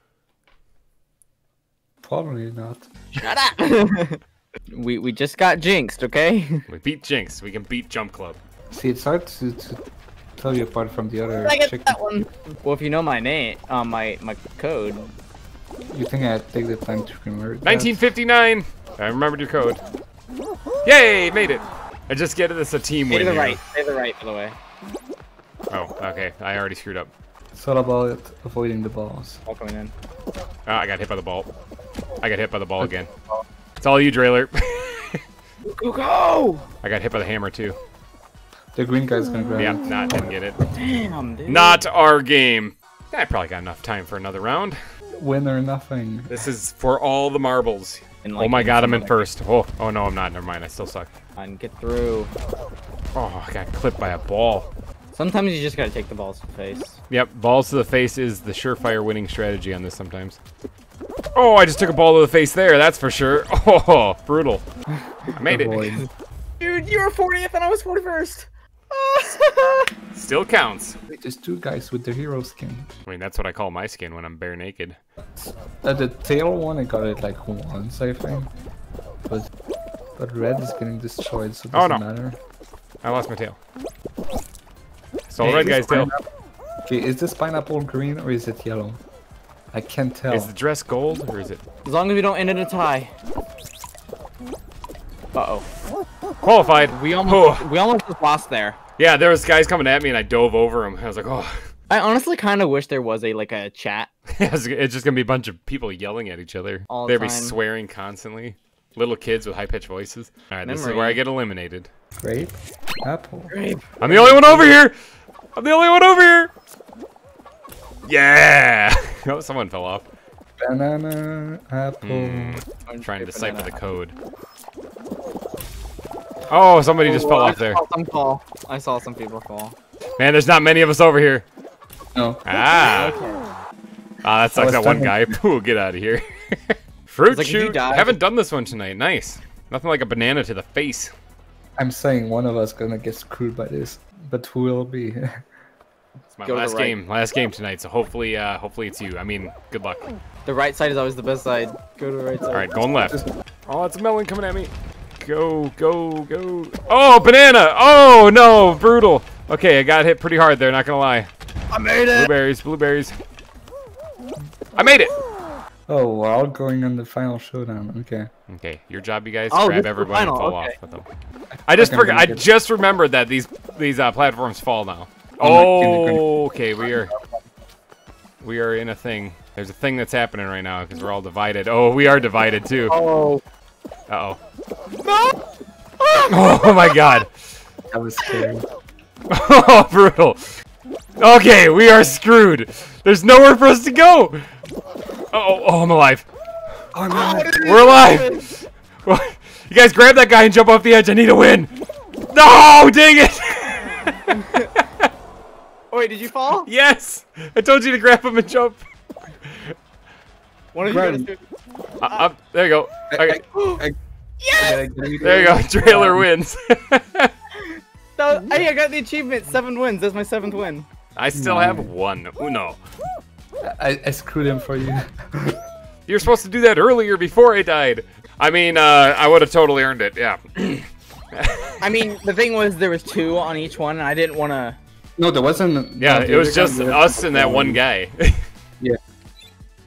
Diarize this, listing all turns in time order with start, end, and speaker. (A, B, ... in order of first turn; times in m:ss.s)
0:02.0-0:02.9 A
0:03.1-0:06.6 B
0:06.7-0:08.4 C
0:08.7-0:09.8 A
0:10.4-0:12.0 A
0:11.4-0:15.1 B
0:15.9-0:18.0 A
0:17.6-0:19.8 C
0:20.8-0:23.6 C
0:23.1-0:24.6 B
0:25.7-0:27.1 C
0:27.5-0:29.4 A
0:29.4-0:29.9 B
0:30.6-0:31.5 C
0:32.2-0:33.1 C
0:32.8-0:33.4 A
0:33.8-0:35.2 C
0:35.6-0:36.7 B
0:36.8-0:37.8 C
0:38.7-0:40.3 A
0:39.6-0:40.6 C
0:40.7-0:41.8 B
0:41.5-0:44.8 C
0:45.2-0:46.4 A
0:46.3-0:51.1 C
0:48.2-0:49.2 B
0:51.4-0:52.3 B
0:53.1-0:54.7 C
0:55.1-0:57.0 B
0:57.1-1:00.4 C
1:01.3-1:04.6 C
1:05.3-1:06.0 C
1:05.4-1:06.1 A
1:06.6-1:09.9 B
1:10.1-1:10.9 C
1:11.1-1:12.9 A
1:13.0-1:15.0 C
1:15.4-1:18.5 A
1:20.2-1:22.4 A
1:21.7-1:22.0 C
1:23.0-1:23.6 C
1:25.3-1:26.1 C
1:25.4-1:26.2 A
1:26.8-1:29.0 A
1:29.7-1:30.5 A
1:30.3-1:31.6 C
1:31.8-1:33.1 B
1:35.3-1:35.7 B
1:36.4-1:37.6 C
1:36.9-1:38.8 B
1:39.0-1:41.5 C
1:41.9-1:44.1 B
1:44.4-1:51.9 C
1:46.9-1:47.6 B
1:50.6-1:51.2 B
1:52.2-1:53.5 A
1:53.5-1:54.7 B
1:54.0-1:54.9 C
1:54.1-1:54.6 A
1:55.6-1:56.5 C
1:58.0-2:00.0 C
2:00.6-2:02.6 A
2:02.0-2:04.2 C
2:02.8-2:03.8 B
2:06.5-2:07.8 C
2:07.0-2:09.7 B
2:10.2-2:11.4 C
2:12.1-2:12.4 A
2:12.4-2:13.2 C
2:12.8-2:13.4 B
2:14.2-2:21.1 C
2:14.5-2:15.4 A
2:17.3-2:18.2 B
2:21.8-2:25.4 A
2:26.3-2:30.0 C
2:26.4-2:27.0 B
2:30.4-2:32.8 B
2:32.5-2:41.3 C
2:32.8-2:33.3 A
2:41.7-2:42.3 B
2:42.1-2:43.2 C
2:44.8-2:45.1 C
2:45.9-2:48.3 A
2:48.5-2:51.1 C
2:49.5-2:50.7 B
2:51.7-2:57.1 C
2:51.7-2:52.4 A
2:55.4-2:56.3 A
2:56.8-2:57.4 A
2:58.4-3:03.0 C
3:02.9-3:03.4 B
3:04.1-3:04.4 C
3:05.0-3:05.4 B
3:06.0-3:07.1 B
3:06.3-3:07.3 C
3:07.9-3:08.6 A
3:09.3-3:10.5 C
3:11.2-3:14.4 C
3:15.3-3:16.3 C
3:16.9-3:17.7 A
3:17.1-3:18.5 B
3:17.6-3:21.7 C
3:22.3-3:25.1 C
3:24.3-3:24.7 B
3:25.9-3:26.7 B
3:26.6-3:28.8 C
3:29.5-3:29.7 C
3:30.7-3:31.4 B
3:30.8-3:31.3 A
3:32.0-3:33.4 C
3:32.0-3:32.3 B
3:33.1-3:34.0 A
3:33.5-3:33.8 B
3:34.4-3:35.1 B
3:34.6-3:36.3 A
3:35.2-3:37.3 C
3:37.5-3:40.8 B
3:41.2-3:42.8 C
3:41.3-3:41.9 A
3:43.6-3:45.6 A
3:46.1-3:52.0 C
3:51.8-3:54.8 B
3:55.2-3:57.8 A
3:56.0-3:58.4 C